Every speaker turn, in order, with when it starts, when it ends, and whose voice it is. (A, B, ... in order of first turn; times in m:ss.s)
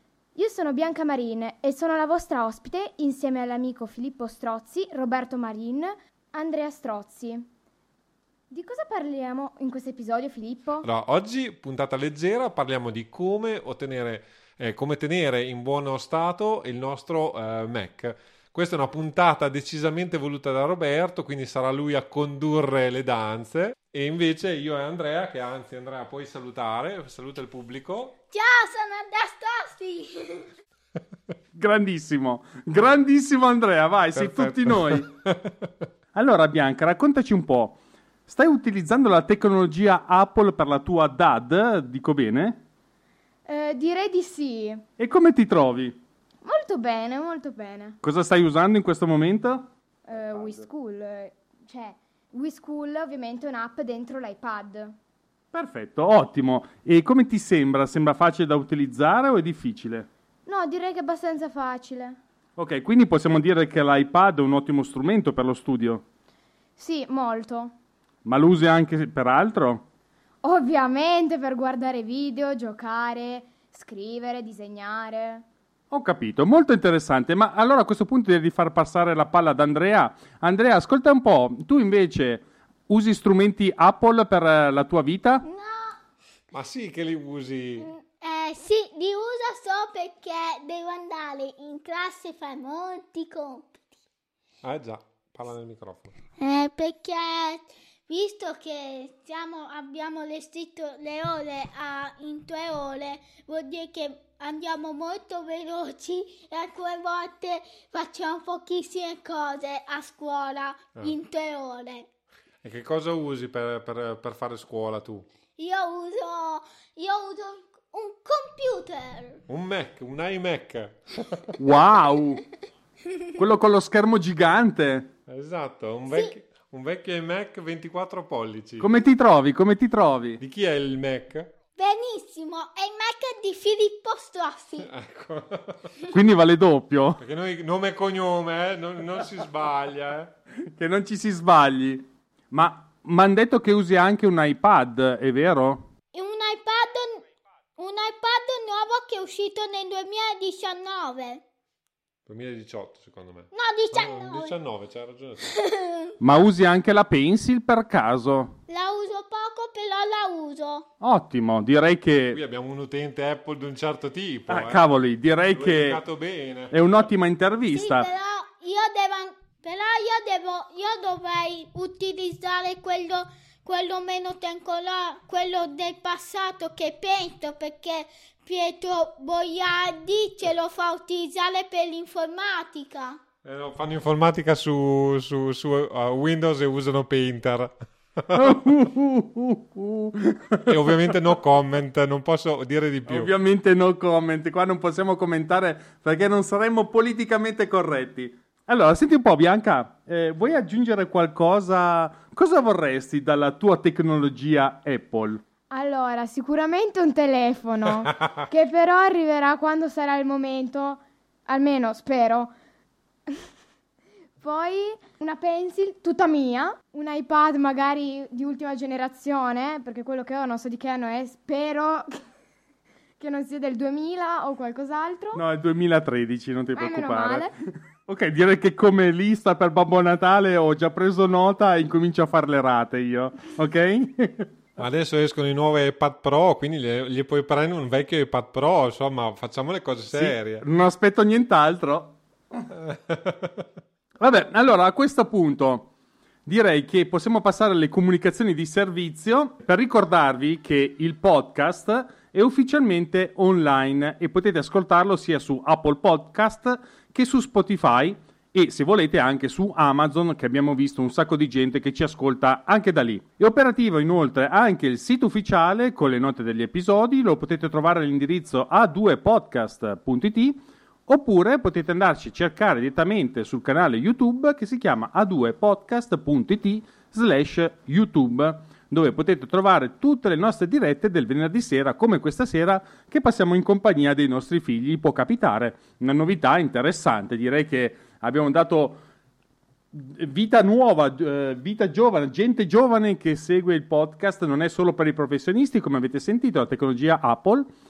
0:00.4-0:07.5 A
0:08.5-0:10.9 A
0:10.8-0:28.2 B
0:28.3-0:30.5 C
0:31.6-0:35.1 D
0:34.2-0:35.7 B
0:36.1-0:42.6 D
0:43.5-0:44.8 A
0:45.0-0:46.0 D
0:46.4-0:48.0 A
0:48.0-0:50.7 D
0:50.1-0:55.0 A
0:55.5-1:00.1 D
1:00.5-1:02.2 A
1:02.6-1:06.0 D
1:06.8-1:07.7 A
1:08.2-1:09.8 D
1:10.4-1:15.4 A
1:15.9-1:25.5 D
1:25.5-1:26.0 C
1:26.5-1:27.9 B
1:27.8-1:33.8 C
1:34.6-1:36.1 B
1:36.4-1:52.1 C
1:52.6-1:55.2 B
1:55.6-1:59.4 C
1:59.5-2:01.6 B
2:01.6-2:02.4 D
2:03.4-2:05.1 D
2:05.3-2:08.9 B
2:08.8-2:10.4 D
2:10.4-2:11.5 B
2:11.8-2:14.9 C
2:14.8-2:16.0 B
2:16.1-2:17.2 D
2:17.2-2:20.3 B
2:20.6-2:25.9 D
2:26.1-2:27.2 C
2:27.8-2:31.4 C
2:32.3-2:35.6 B
2:33.5-2:34.6 C
2:35.5-2:36.1 C
2:36.2-2:38.6 D
2:38.7-2:40.9 C
2:41.0-2:42.4 D
2:42.3-2:44.8 B
2:44.5-2:46.0 D
2:45.5-2:46.9 B
2:46.7-2:48.1 D
2:47.7-3:03.2 C
3:03.4-3:08.6 B
3:08.3-3:11.2 D
3:10.7-3:13.3 B
3:13.1-3:25.4 D
3:25.7-3:32.5 A
3:34.4-3:42.2 A
3:43.2-3:45.4 A
3:45.3-3:54.5 D
3:46.8-3:47.5 A
3:54.8-4:00.7 B
4:00.1-4:02.6 D
4:02.7-4:03.7 B
4:04.2-4:05.9 D
4:06.5-4:49.0 D
4:49.9-4:57.7 D